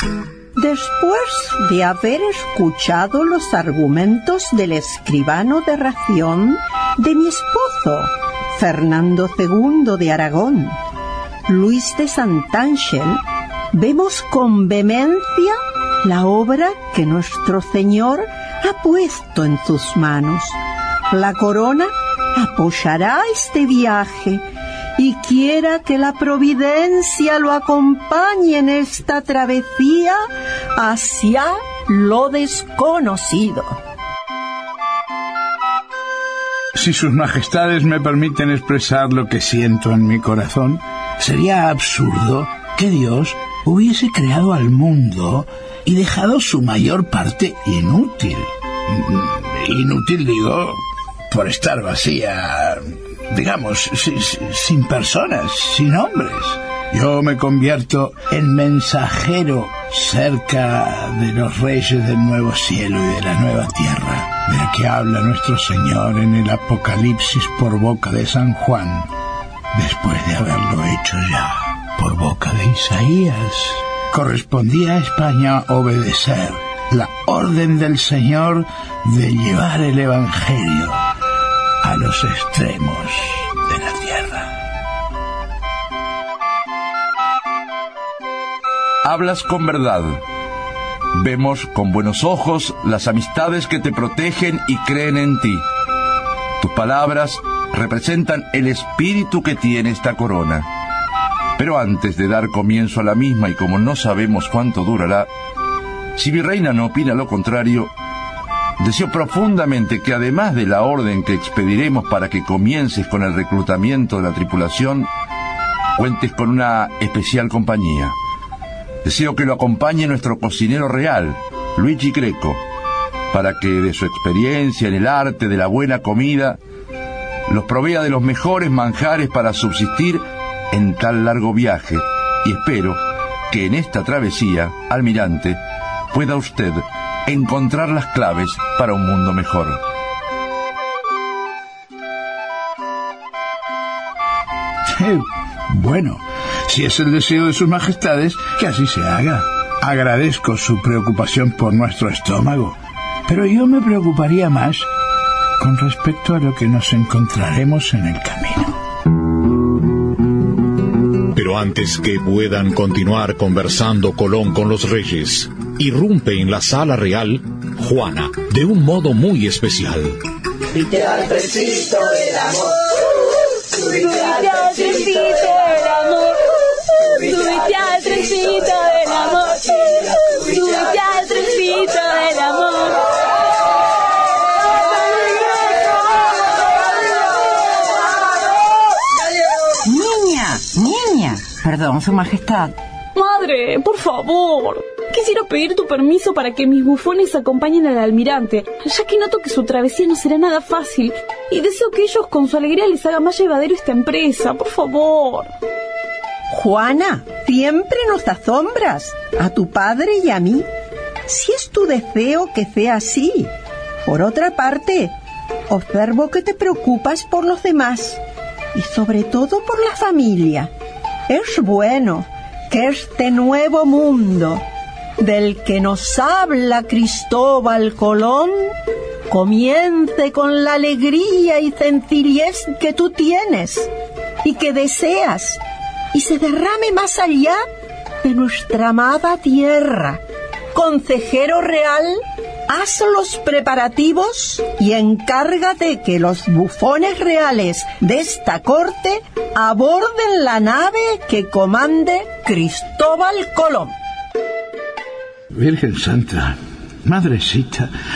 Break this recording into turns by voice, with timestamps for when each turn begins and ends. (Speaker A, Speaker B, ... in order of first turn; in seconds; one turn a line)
Speaker A: 0.6-10.8
Speaker A: 11.5-20.6
Speaker A: 21.1-24.4
Speaker A: 25.0-30.2
Speaker A: 30.7-33.8
Speaker B: 36.7-50.8
Speaker B: 51.3-69.1
Speaker B: 69.7-81.0
Speaker B: 81.8-84.5
Speaker C: 89.0-90.2
Speaker C: 91.2-95.6
Speaker C: 96.6-100.7
Speaker C: 101.6-105.3
Speaker C: 106.2-107.9
Speaker C: 108.8-115.1
Speaker C: 116.0-118.1
Speaker C: 119.0-122.6
Speaker C: 123.3-126.6
Speaker C: 127.5-135.6
Speaker C: 136.1-139.8
Speaker B: 145.0-152.8
Speaker B: 153.3-154.9
Speaker B: 155.6-158.8
Speaker D: 161.3-170.2
Speaker E: 170.7-172.7
Speaker E: 173.7-183.1
Speaker F: 189.8-192.7
Speaker E: 193.1-205.5
Speaker A: 206.5-210.7
Speaker A: 211.3-213.5
Speaker A: 214.1-215.1
Speaker A: 215.7-218.2
Speaker A: 218.7-220.7
Speaker A: 221.3-224.6
Speaker A: 225.2-228.8
Speaker A: 229.3-233.9
Speaker A: 234.4-235.6
Speaker A: 236.1-237.6
Speaker A: 238.2-240.2
Speaker A: 240.7-253.9
Speaker B: 255.5-257.9